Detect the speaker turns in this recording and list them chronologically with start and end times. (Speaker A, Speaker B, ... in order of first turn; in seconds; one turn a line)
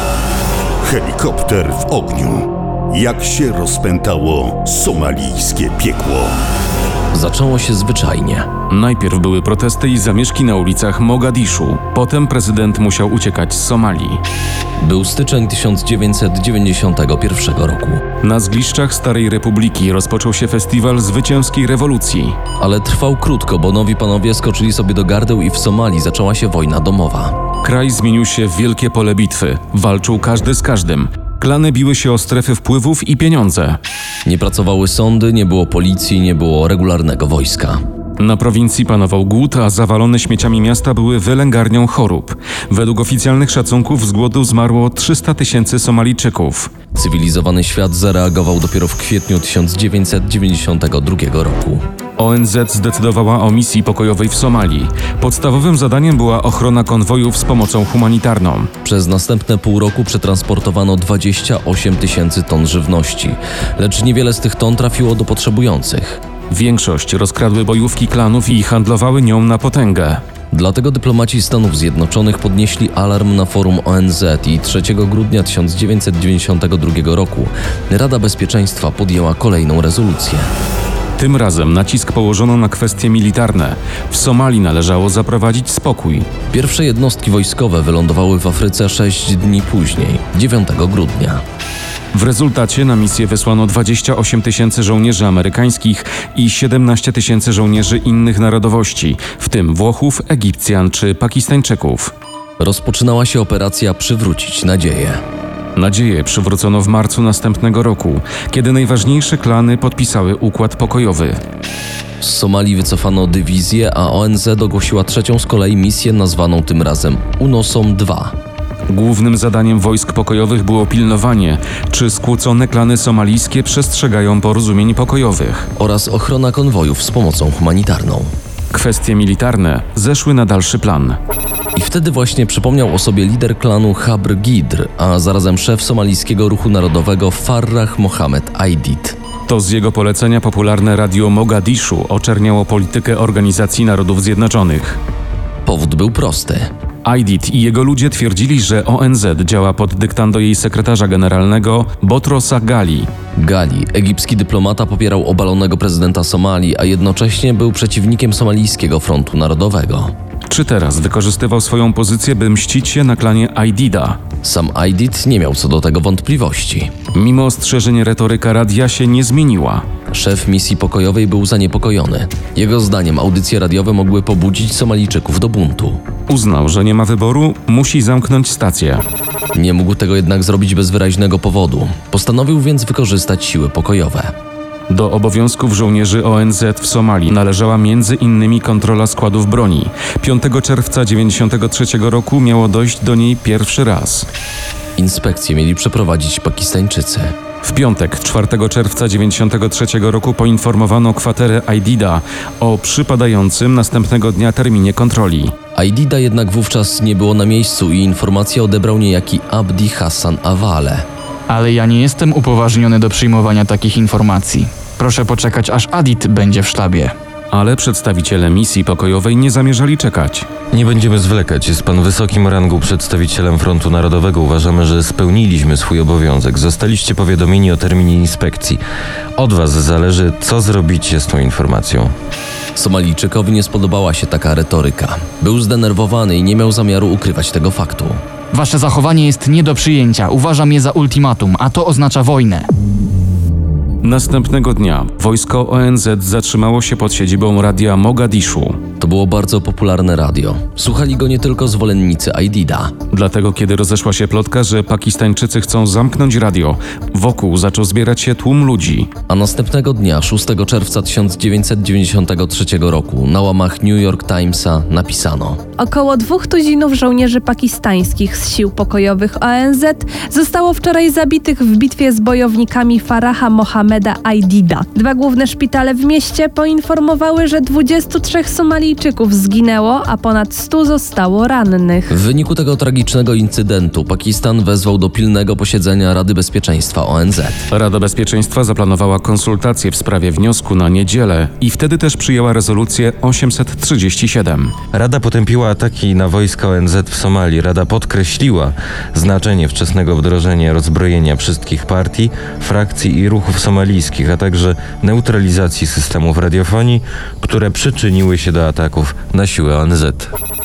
Speaker A: 0.8-6.4
Speaker B: 7.1-8.5
Speaker C: 8.7-14.2
Speaker B: 14.8-18.0
Speaker C: 18.2-22.4
Speaker B: 22.6-27.4
Speaker C: 27.6-33.8
Speaker B: 34.2-37.8
Speaker C: 38.2-46.7
Speaker B: 46.9-51.8
Speaker C: 52.2-58.7
Speaker B: 58.8-66.2
Speaker C: 66.5-70.2
Speaker B: 70.5-80.5
Speaker C: 81.2-86.3
Speaker B: 86.5-91.4
Speaker C: 92.1-102.1
Speaker B: 102.6-105.2
Speaker C: 105.8-111.4
Speaker B: 112.2-118.3
Speaker C: 118.9-125.7
Speaker B: 125.8-128.3
Speaker C: 128.7-131.2
Speaker B: 131.8-139.2
Speaker C: 139.5-145.0
Speaker B: 145.7-146.7
Speaker C: 147.1-153.1
Speaker B: 153.4-160.1
Speaker C: 160.5-164.2
Speaker B: 164.4-166.9
Speaker C: 167.1-169.8
Speaker B: 170.1-176.0
Speaker C: 176.3-179.0
Speaker B: 179.5-184.3
Speaker C: 184.9-194.3
Speaker B: 195.0-197.3
Speaker C: 197.6-205.5
Speaker B: 205.8-211.1
Speaker D: 211.5-217.1
Speaker C: 217.5-220.5
Speaker E: 220.7-228.8
Speaker E: 229.4-232.1
Speaker B: 232.8-238.2
Speaker D: 238.5-242.7
Speaker C: 244.0-248.8
Speaker B: 249.0-252.9
Speaker C: 253.1-259.1
Speaker B: 259.3-265.6
Speaker F: 265.8-282.2
Speaker B: 282.1-287.6
Speaker C: 287.7-294.8
Speaker E: 294.9-310.3